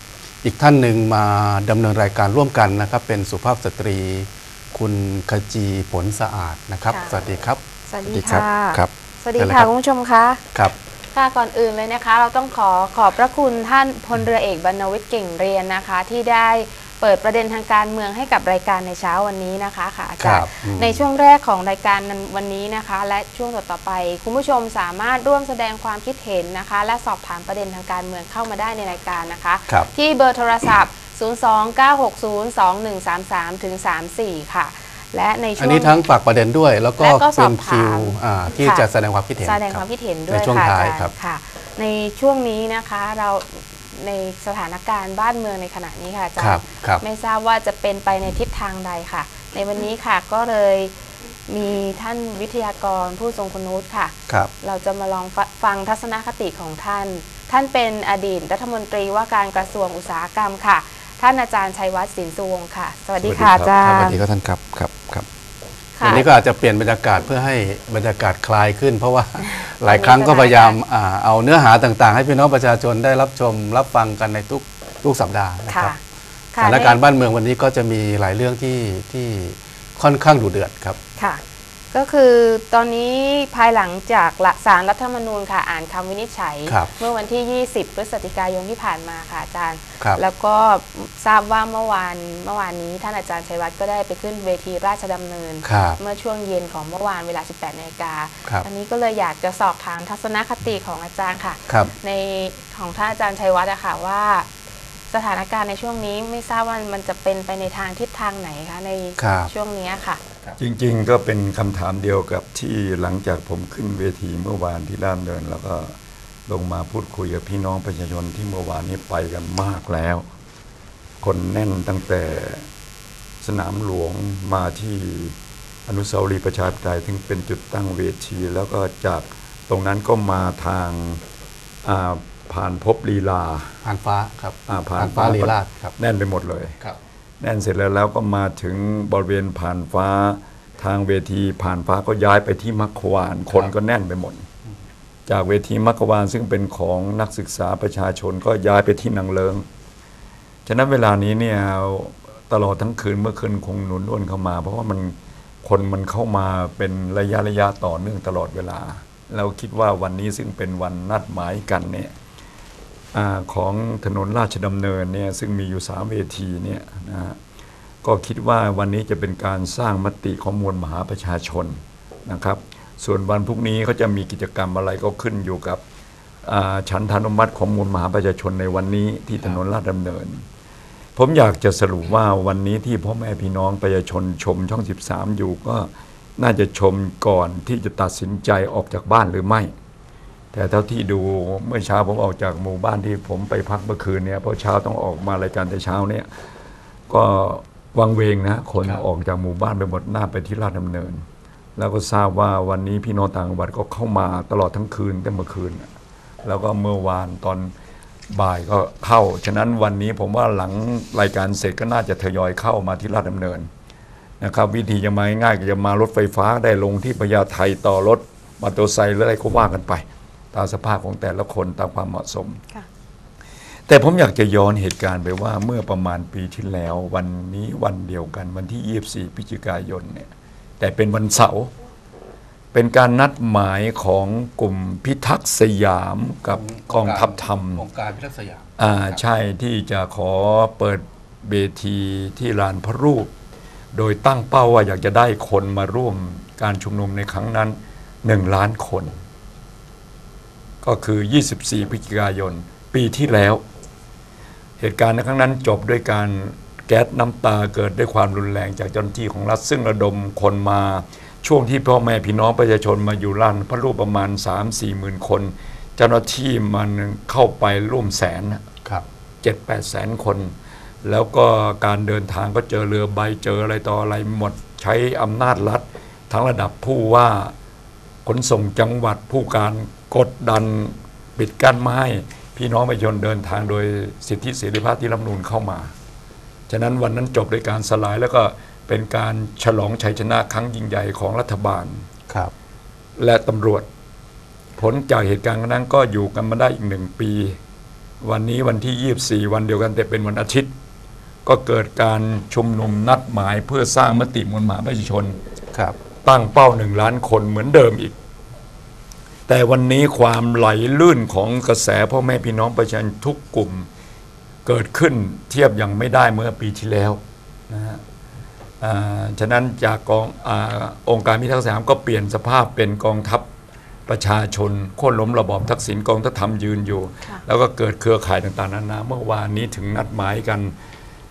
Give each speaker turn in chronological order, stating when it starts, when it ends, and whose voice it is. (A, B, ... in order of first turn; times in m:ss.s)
0:00.4-0:09.7 A
0:06.8-0:07.2 B
0:07.9-0:10.4 B
0:11.1-0:36.0 B
0:20.2-0:21.1 A
0:35.6-0:41.1 A
0:37.0-0:38.9 B
0:39.4-0:50.9 B
0:46.4-0:47.0 A
0:51.5-1:04.2 B
1:03.2-1:05.2 A
1:06.0-1:06.3 B
1:06.0-1:16.0 A
1:09.4-1:10.8 B
1:15.7-1:16.0 B
1:16.5-1:17.0 B
1:16.6-1:21.0 A
1:21.2-1:44.5 B
1:26.7-1:26.9 A
1:35.6-1:36.0 A
1:41.7-1:41.9 A
1:45.1-1:50.2 B
1:49.2-1:49.5 A
1:50.6-1:55.9 C
1:56.5-2:00.2 C
2:01.2-2:02.6 C
2:03.4-2:05.3 C
2:05.9-2:11.2 C
2:11.8-2:13.7 C
2:13.8-2:16.0 A
2:14.7-2:16.8 C
2:17.4-2:24.4 C
2:25.3-2:29.6 C
2:30.6-2:42.1 C
2:43.1-2:47.4 C
2:48.0-2:55.8 C
2:56.4-3:00.4 C
3:01.2-3:09.7 C
3:10.5-3:16.2 C
3:17.1-3:21.2 C
3:18.8-3:19.1 A
3:21.8-3:25.9 C
3:26.4-3:27.7 C
3:28.3-3:33.7 C
3:34.4-3:42.6 C
3:43.9-3:50.3 C
3:50.8-3:51.7 C
3:52.7-3:57.8 C
3:56.5-3:59.2 A
3:58.8-4:03.3 C
4:03.9-4:09.1 C
4:10.8-4:13.6 C
4:14.8-4:28.6 C
4:29.4-4:37.5 C
4:38.2-4:45.9 C
4:46.7-4:52.0 C
4:53.2-4:53.9 C
4:54.8-4:57.6 C
4:58.2-5:00.7 C
5:01.4-5:05.4 C
5:06.2-5:08.1 C
5:09.5-5:13.8 C
5:14.6-5:18.0 C
5:18.8-5:23.4 C
5:24.1-5:30.7 C